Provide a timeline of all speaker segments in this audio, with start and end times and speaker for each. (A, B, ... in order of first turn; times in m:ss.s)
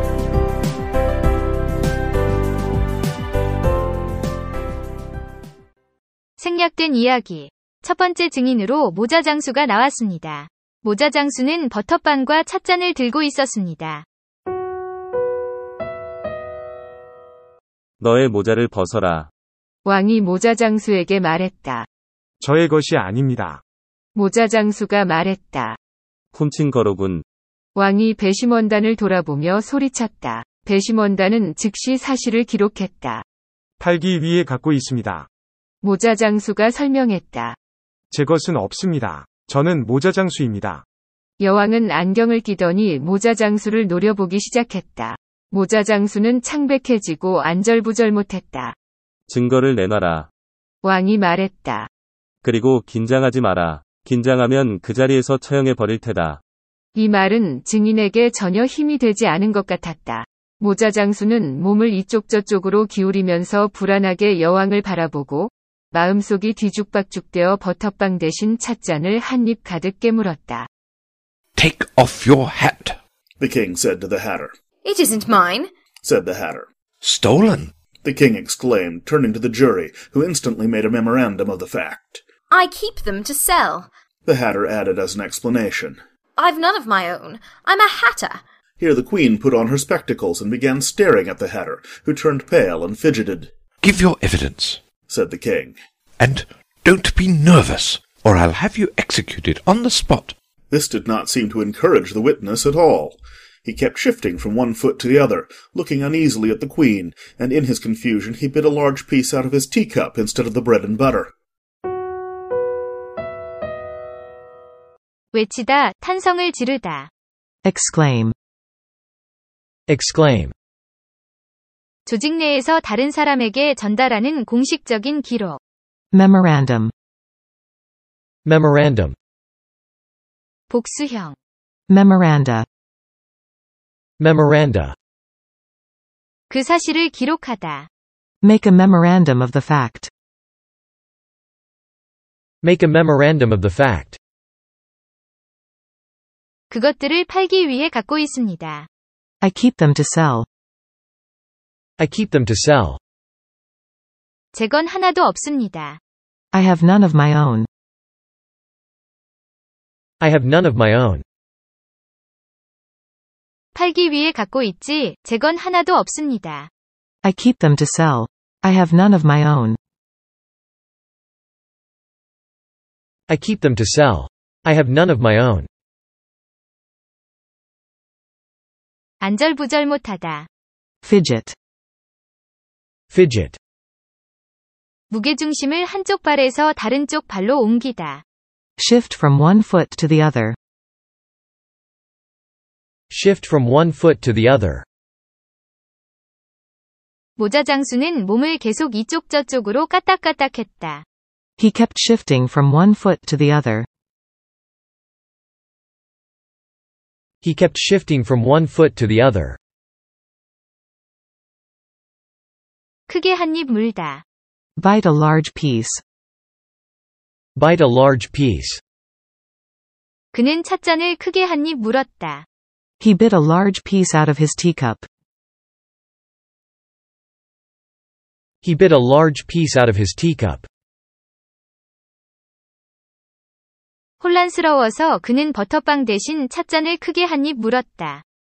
0:06.4-0:14.1 A
0:18.0-0:19.3 B
0:19.8-0:21.9 C
0:22.4-0:23.6 D
0:24.2-0:25.8 C
0:26.3-0:27.2 B
0:27.8-0:33.2 C
0:33.8-0:35.3 D
0:35.8-0:37.6 C
0:38.1-0:40.8 D
0:41.4-0:48.7 C
0:49.3-0:50.3 B
0:50.8-0:51.9 C
0:52.4-0:56.4 B
0:57.0-1:10.7 C
1:11.6-1:13.0 E
1:13.4-1:14.5 F
1:14.8-1:15.7 G
1:16.0-1:16.7 F
1:17.0-1:17.7 E
1:18.0-1:22.2 F
1:22.5-1:23.9 G
1:24.3-1:26.0 F
1:26.4-1:28.4 G
1:28.8-1:33.5 F
1:33.8-1:34.8 E
1:35.1-1:35.8 F
1:36.2-1:40.4 E
1:40.7-1:51.3 F
1:55.3-1:57.1 A
1:57.6-1:58.3 H
1:59.9-2:00.5 I
2:02.1-2:05.6 A
2:06.1-2:06.9 H
2:08.4-2:09.2 I
2:10.7-2:11.4 A
2:11.9-2:12.7 H
2:14.2-2:15.0 I
2:16.5-2:17.9 A
2:18.4-2:20.1 H
2:22.6-2:24.2 I
2:26.7-2:28.9 A
2:29.4-2:30.5 H
2:32.0-2:33.0 I
2:34.5-2:36.0 A
2:36.5-2:37.7 H
2:40.2-2:41.2 I
2:43.7-2:46.7 A
2:47.2-2:49.8 H
2:53.3-2:55.7 I
2:59.2-3:00.5 A
3:01.0-3:01.6 H
3:03.1-3:03.6 I
3:05.1-3:08.2 A
3:08.8-3:10.6 H
3:13.1-3:14.8 I
3:17.4-3:21.0 A
3:21.6-3:23.9 H
3:27.4-3:29.6 I
3:33.1-3:34.2 A
3:34.8-3:36.0 H
3:37.6-3:38.8 I
3:40.3-3:42.4 A
3:43.0-3:45.1 H
3:48.6-3:50.7 I
3:54.2-3:58.2 A